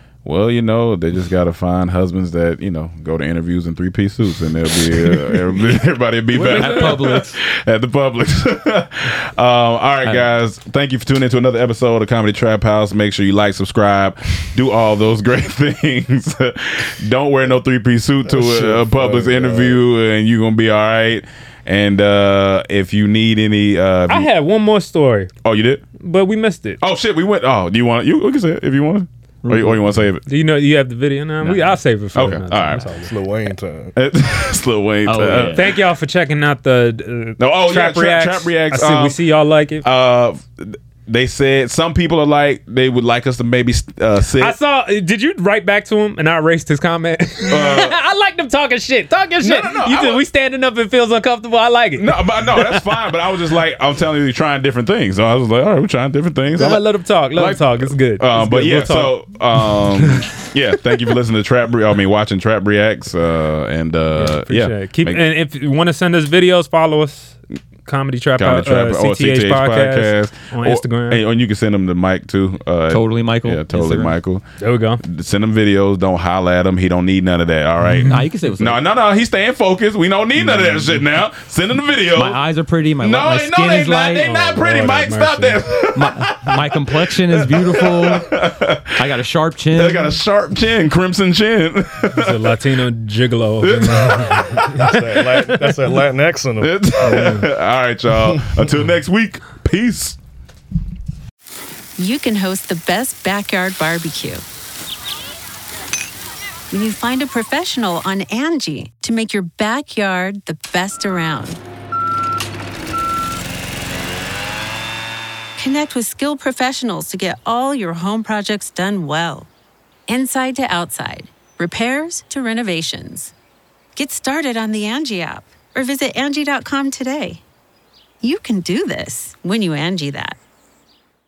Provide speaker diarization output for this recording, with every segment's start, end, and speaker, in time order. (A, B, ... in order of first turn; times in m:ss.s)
0:00.2-0:24.3 A
0:06.3-0:07.4 B
0:06.5-0:06.9 C
0:18.2-0:19.8 D
0:24.1-0:25.3 C
0:25.4-0:25.8 A
0:26.0-0:26.8 C
0:26.8-0:30.2 A
0:29.4-0:29.9 B
0:30.2-0:33.1 C
0:31.4-0:31.8 B
0:32.1-0:32.9 A
0:33.0-0:33.9 D
0:33.9-0:35.8 A
0:35.0-0:35.7 B
0:35.5-0:39.8 C
0:37.4-0:39.2 A
0:39.8-0:44.6 A
0:44.3-0:52.9 C
0:47.5-0:48.0 A
0:49.4-0:50.2 A
0:52.0-1:05.2 A
0:56.5-0:59.2 C
0:59.9-1:00.3 C
1:04.1-1:11.2 C
1:08.4-1:14.4 A
1:12.9-1:14.2 B
1:14.6-1:15.0 C
1:15.0-1:22.4 A
1:17.8-1:18.2 C
1:18.1-1:18.8 B
1:20.4-1:21.0 B
1:22.1-1:24.4 B
1:23.0-1:29.0 A
1:24.2-1:25.6 C
1:25.9-1:28.3 B
1:29.0-1:30.2 B
1:29.7-1:32.5 A
1:32.1-1:35.2 C
1:33.6-1:35.6 A
1:34.7-1:37.4 D
1:36.6-1:40.2 A
1:37.1-1:37.4 C
1:42.0-1:44.4 E
1:46.7-1:51.6 E
1:55.6-1:59.5 E
2:00.1-2:03.3 E
2:04.0-2:07.4 E
2:08.2-2:10.4 E